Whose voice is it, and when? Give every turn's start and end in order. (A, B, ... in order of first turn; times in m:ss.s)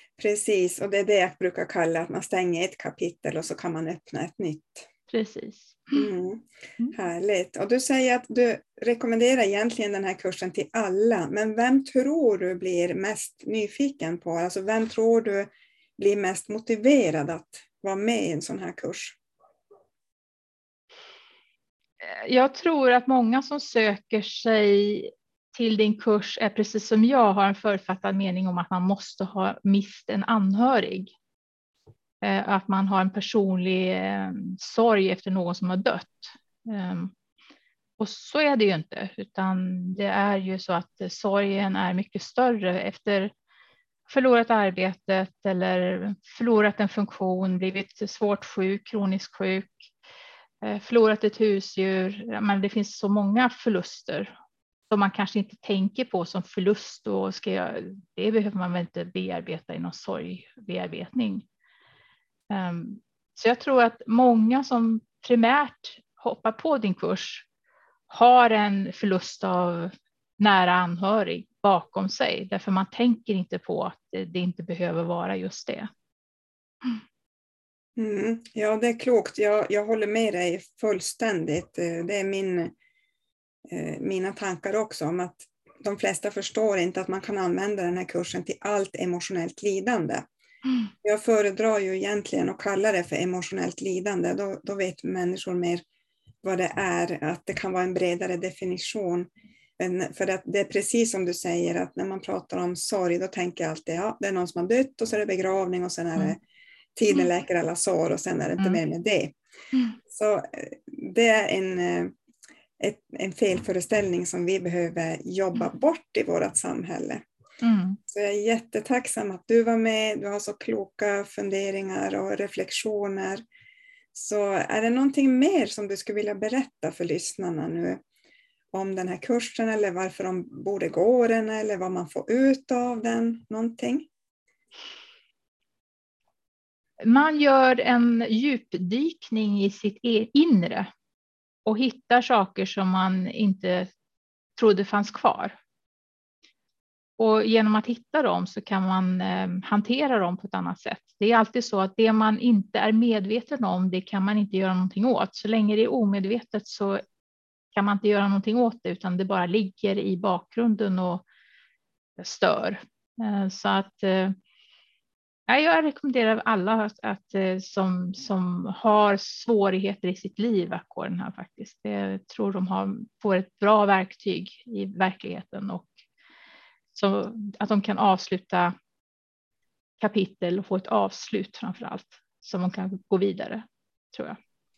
0:00.2-0:04.9 A
0:05.1-0:06.0 B
0:05.9-0:19.2 A
0:22.0-0:31.1 B
0:32.2-0:37.1 B
0:38.0-0:43.3 B
0:44.1-0:49.9 B
0:50.6-0:54.3 B
0:54.9-1:01.5 B
1:02.5-1:07.5 B
1:08.1-1:15.9 B
1:18.0-1:22.7 A
1:23.7-1:30.3 A
1:31.0-1:35.8 A
1:36.4-1:46.4 A
1:47.0-1:49.4 A
1:50.1-1:52.1 A
1:52.8-1:57.2 A
1:57.6-1:58.0 B
1:58.1-2:03.4 A
2:04.1-2:08.0 A
2:08.7-2:14.1 A
2:17.0-2:20.9 B
2:21.7-2:23.9 B
2:24.6-2:25.6 B
2:27.2-2:37.0 B
2:37.7-2:41.2 B
2:42.2-2:44.3 B
2:45.5-2:55.9 B
2:56.9-2:58.7 B
3:00.0-3:04.4 B